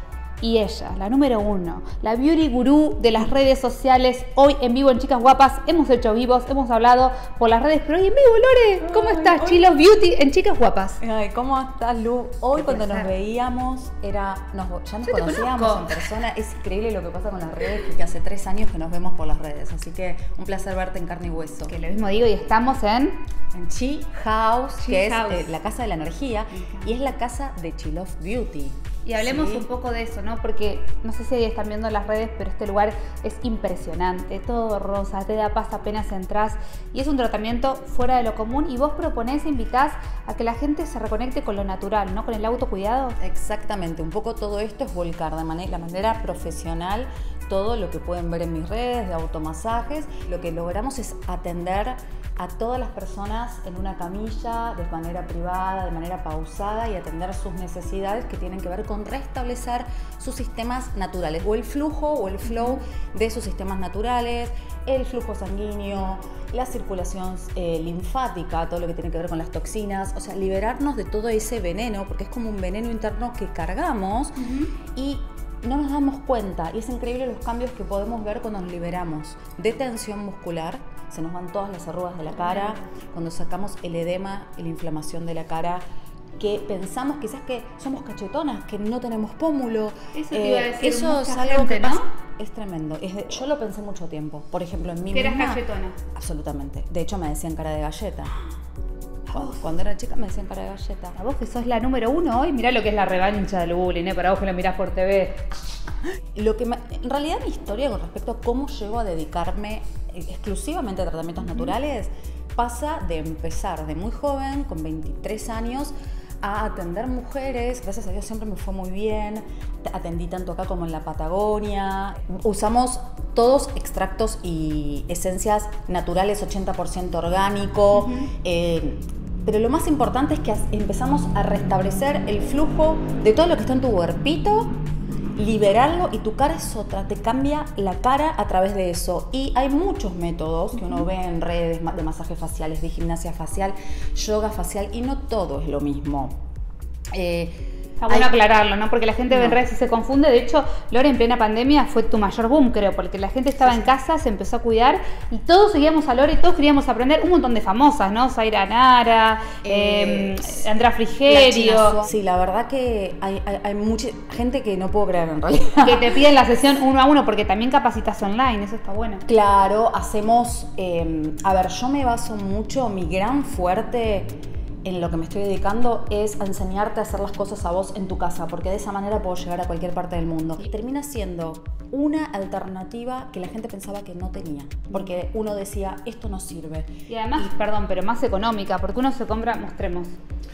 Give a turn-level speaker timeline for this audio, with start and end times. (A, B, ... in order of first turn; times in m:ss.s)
0:00.4-0:11.0 A
0:08.8-0:09.6 B
0:11.0-0:21.8 B
0:12.5-0:13.1 A
0:15.1-0:15.9 A
0:21.7-0:23.2 A
0:23.5-0:29.7 B
0:24.8-0:25.5 A
0:26.5-0:26.9 A
0:29.0-0:43.2 A
0:43.2-1:25.8 B
1:02.4-1:02.8 A
1:14.4-1:14.7 A
1:22.4-1:22.6 A
1:26.4-1:35.6 B
1:30.1-1:32.0 A
1:35.1-1:36.0 A
1:36.1-1:38.4 B
1:39.3-1:39.7 A
1:39.3-1:41.2 B
1:41.2-1:45.5 A
1:46.3-2:14.8 B
2:07.9-2:08.3 A
2:15.4-2:26.4 B
2:20.8-2:21.0 A
2:27.1-2:28.3 B
2:28.0-2:42.0 A
2:29.3-2:29.6 B
2:33.6-2:33.9 B
2:39.6-2:46.2 B
2:45.8-2:49.2 A
2:49.2-3:07.5 B
3:07.1-3:10.2 A